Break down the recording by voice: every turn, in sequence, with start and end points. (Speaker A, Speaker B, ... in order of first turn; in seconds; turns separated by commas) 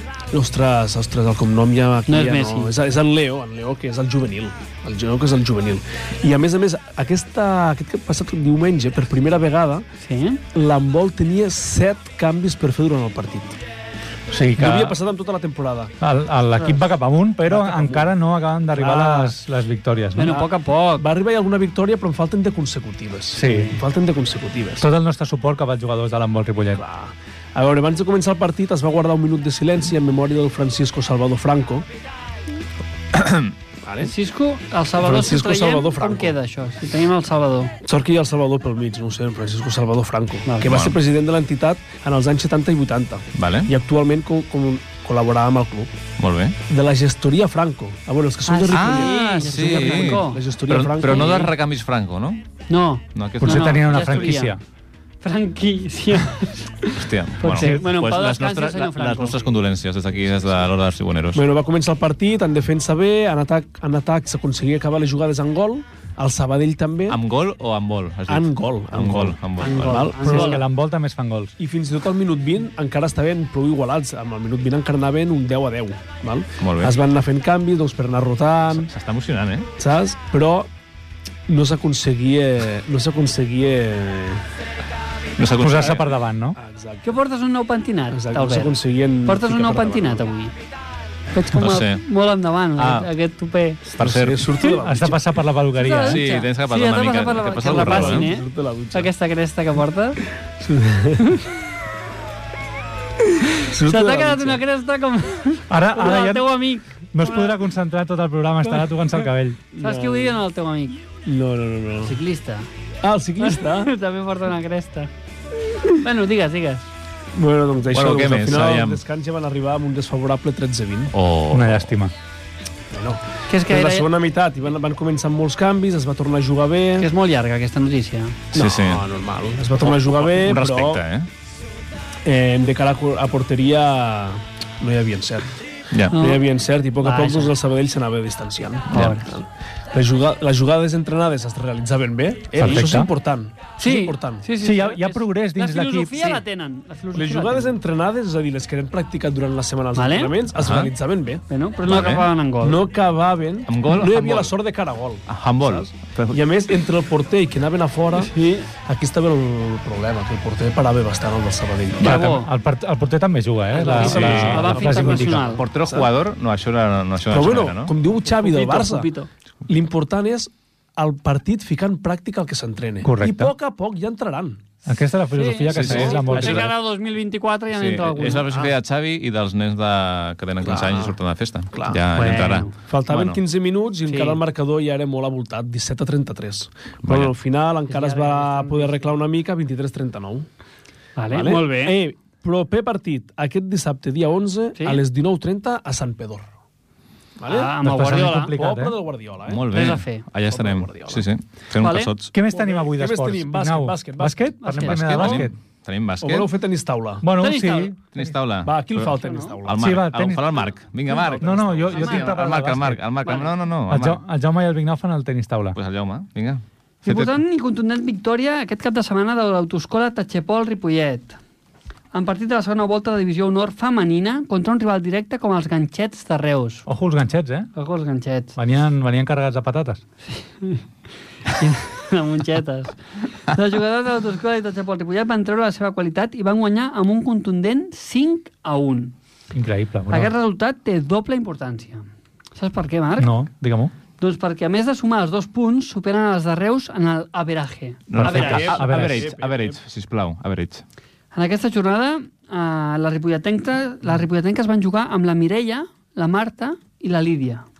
Speaker A: 0.3-9.8, Speaker B: 2.1-2.7, Speaker B: 10.0-10.4, Speaker A: 10.5-13.6, Speaker C: 14.3-15.0, Speaker A: 14.6-15.9, Speaker C: 16.0-20.5, Speaker B: 16.6-16.8, Speaker A: 17.4-18.1, Speaker A: 18.7-19.4, Speaker B: 20.1-21.1, Speaker A: 21.0-24.9, Speaker C: 23.3-23.8, Speaker C: 24.8-26.8, Speaker A: 26.8-31.8, Speaker D: 33.1-33.5, Speaker A: 33.8-34.1, Speaker B: 34.0-37.7, Speaker A: 35.0-36.4, Speaker A: 37.8-45.9, Speaker B: 40.5-40.8, Speaker D: 40.6-41.0, Speaker D: 43.3-43.7, Speaker D: 46.2-46.6, Speaker A: 46.7-51.5, Speaker B: 48.5-50.4, Speaker D: 48.7-52.4, Speaker B: 51.0-51.5, Speaker B: 52.7-54.5, Speaker D: 53.1-54.4, Speaker C: 53.4-54.6, Speaker B: 55.2-59.5, Speaker D: 56.9-61.4, Speaker C: 57.5-57.9, Speaker A: 61.3-67.2, Speaker D: 67.1-70.1, Speaker A: 68.3-70.6, Speaker B: 69.6-70.6, Speaker C: 70.2-71.5, Speaker A: 71.6-78.9, Speaker D: 76.6-77.0, Speaker D: 78.7-79.7, Speaker A: 79.8-80.7, Speaker A: 81.5-84.4, Speaker D: 85.4-86.1, Speaker C: 85.6-86.6, Speaker A: 86.5-87.2, Speaker B: 87.0-90.5, Speaker A: 88.1-90.3, Speaker B: 91.3-93.8, Speaker D: 91.5-92.0, Speaker D: 92.8-93.1, Speaker D: 93.8-94.5, Speaker A: 94.0-95.2, Speaker C: 94.8-96.2, Speaker B: 95.7-100.2, Speaker D: 96.0-98.3, Speaker A: 97.7-99.1, Speaker A: 100.6-101.4, Speaker A: 103.6-104.6, Speaker B: 103.8-107.6, Speaker C: 105.7-106.5, Speaker C: 107.1-109.6, Speaker B: 109.7-111.0, Speaker A: 109.8-110.4, Speaker A: 111.2-112.1, Speaker B: 112.0-112.7, Speaker A: 113.0-113.9, Speaker B: 113.4-115.1, Speaker B: 115.9-116.9, Speaker A: 117.3-121.1, Speaker D: 117.9-119.0, Speaker D: 121.1-121.9, Speaker C: 121.5-122.1, Speaker A: 122.9-127.1, Speaker B: 123.5-124.1, Speaker B: 127.0-128.4, Speaker D: 128.5-129.0, Speaker A: 128.5-131.0, Speaker D: 129.8-131.3, Speaker A: 132.2-135.5, Speaker D: 135.9-136.2, Speaker A: 136.1-144.4, Speaker B: 136.1-136.4, Speaker B: 137.0-137.5, Speaker D: 138.9-139.2, Speaker B: 138.9-139.3, Speaker C: 142.5-143.1, Speaker B: 143.8-147.8, Speaker C: 144.6-146.4, Speaker A: 147.1-151.4, Speaker B: 149.9-150.4, Speaker D: 150.5-150.9, Speaker B: 151.5-152.8, Speaker D: 151.8-152.3, Speaker A: 152.6-162.2, Speaker D: 153.7-154.5, Speaker D: 155.3-156.4, Speaker B: 158.1-158.7, Speaker B: 162.0-162.5, Speaker C: 162.0-165.6, Speaker B: 163.7-165.6, Speaker D: 164.0-167.9, Speaker A: 164.0-166.1, Speaker A: 167.3-169.1, Speaker B: 168.2-169.3, Speaker A: 169.7-174.6, Speaker C: 173.0-173.5, Speaker C: 174.8-176.7, Speaker B: 175.3-178.5, Speaker D: 175.7-176.7, Speaker D: 177.7-183.4, Speaker A: 178.5-178.7, Speaker A: 180.6-181.2, Speaker A: 181.7-182.0, Speaker B: 182.1-182.7, Speaker A: 182.8-190.5, Speaker B: 184.1-184.4, Speaker D: 187.0-187.3, Speaker B: 187.9-189.2, Speaker B: 191.2-192.0, Speaker A: 191.3-196.5, Speaker A: 197.4-197.8, Speaker B: 197.4-198.6, Speaker C: 197.8-199.0, Speaker A: 198.5-199.8, Speaker D: 199.5-202.3, Speaker B: 199.7-200.2, Speaker A: 200.5-201.3, Speaker B: 201.8-202.1, Speaker C: 202.3-205.5, Speaker A: 202.5-204.6, Speaker B: 204.6-205.4, Speaker D: 204.8-206.5, Speaker A: 206.2-207.2, Speaker C: 207.2-208.3, Speaker B: 207.3-207.9, Speaker D: 208.1-209.1, Speaker A: 208.6-209.8, Speaker B: 209.2-209.6, Speaker D: 209.6-214.2, Speaker C: 209.8-210.6, Speaker A: 211.1-211.9, Speaker C: 211.4-213.0, Speaker B: 211.9-212.4, Speaker B: 213.2-213.5, Speaker C: 213.9-215.8, Speaker D: 215.7-217.4, Speaker B: 217.0-221.4, Speaker B: 222.1-226.8, Speaker C: 226.9-227.7, Speaker B: 227.7-228.5, Speaker C: 228.6-230.0, Speaker B: 230.3-230.8, Speaker B: 231.4-239.1, Speaker C: 239.5-240.3, Speaker B: 240.1-243.3, Speaker C: 243.2-243.9, Speaker B: 244.2-248.7, Speaker D: 248.1-250.8, Speaker C: 248.1-249.3, Speaker A: 248.2-249.8, Speaker B: 251.3-257.6